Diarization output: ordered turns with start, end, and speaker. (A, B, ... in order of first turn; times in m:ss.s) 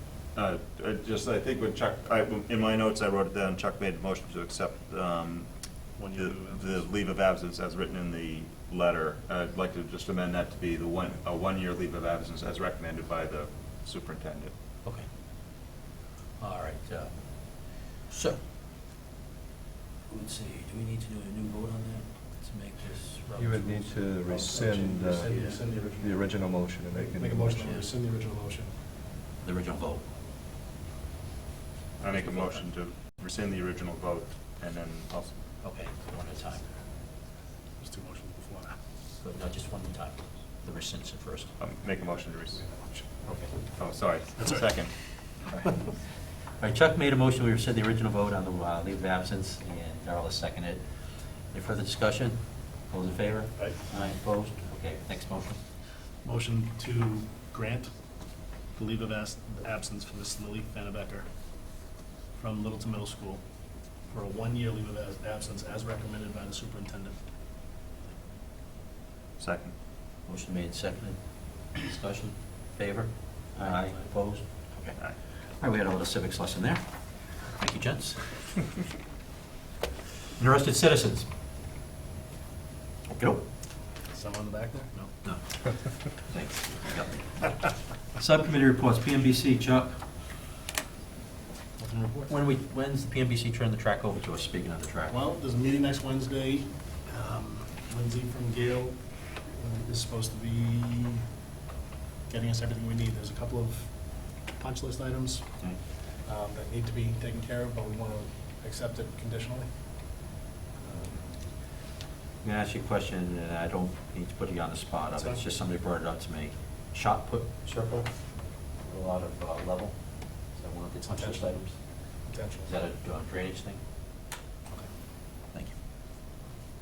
0:00.3-0:14.5 A
0:05.9-0:06.9 B
0:14.8-0:15.1 C
0:16.4-0:18.4 C
0:20.1-0:24.0 C
0:23.4-0:27.8 D
0:24.3-0:26.3 B
0:25.3-0:25.6 C
0:26.9-0:28.8 B
0:29.4-0:30.0 C
0:32.0-0:35.4 A
0:32.1-0:32.7 C
0:35.6-0:36.6 C
0:37.8-0:38.8 B
0:39.2-0:41.6 C
0:41.6-0:42.6 A
0:42.5-0:43.1 B
0:43.2-0:43.5 C
0:43.7-0:44.9 A
0:44.4-0:44.7 B
0:46.6-0:55.6 C
0:56.2-0:57.9 B
0:58.7-1:01.3 B
1:02.4-1:03.4 B
1:04.1-1:07.2 B
1:09.4-1:09.7 A
1:10.2-1:15.0 C
1:13.6-1:14.1 B
1:15.6-1:18.2 C
1:20.4-1:21.3 C
1:23.1-1:23.4 C
1:24.1-1:25.1 B
1:25.2-1:27.5 C
1:28.1-1:30.0 C
1:31.8-1:32.2 B
1:32.2-1:35.2 C
1:35.1-1:41.2 B
1:42.3-1:45.5 B
1:46.2-1:49.7 B
1:50.8-1:51.4 B
1:52.4-2:01.8 C
1:55.2-1:55.4 B
2:01.1-2:01.5 B
2:02.2-2:02.7 B
2:02.6-2:03.8 C